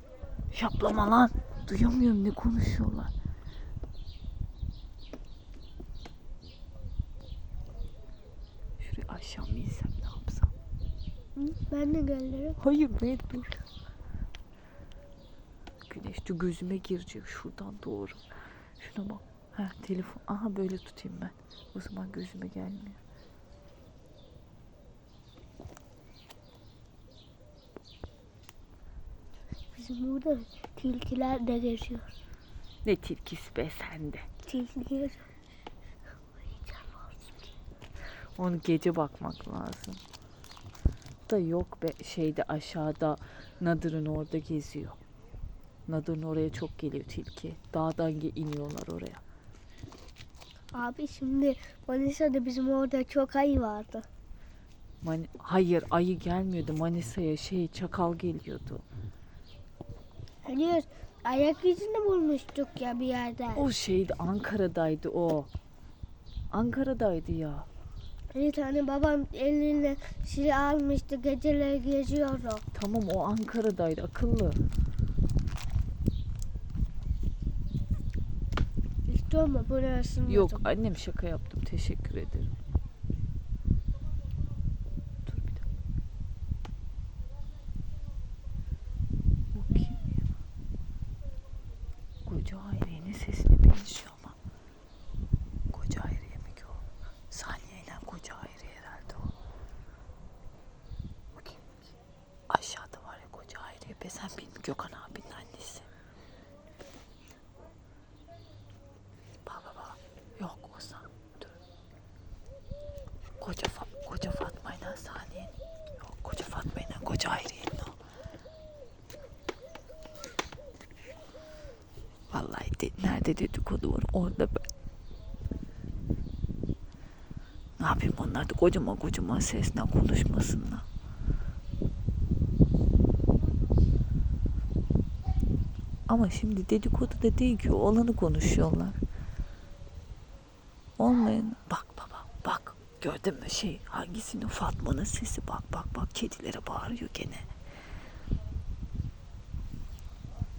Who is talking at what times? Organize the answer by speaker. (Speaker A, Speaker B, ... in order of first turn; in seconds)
Speaker A: 0.5-3.1, 8.8-10.5, 12.6-13.6, 15.9-18.2, 18.8-23.0, 32.8-34.3, 38.4-40.0, 41.3-45.0, 45.9-49.2, 55.0-58.8, 63.5-65.5, 66.5-67.7, 72.7-74.6, 80.3-82.6, 85.3-85.6, 89.5-90.0, 92.2-94.4, 95.7-99.3, 101.3-101.7, 102.5-105.9, 109.5-111.5, 113.4-117.9, 122.3-124.7, 127.8-130.8, 136.1-139.0, 141.0-147.5
Speaker B: 11.3-12.6, 29.7-32.0, 34.5-35.3, 36.6-37.3, 50.7-54.1, 60.4-63.6, 68.3-72.7, 79.1-80.6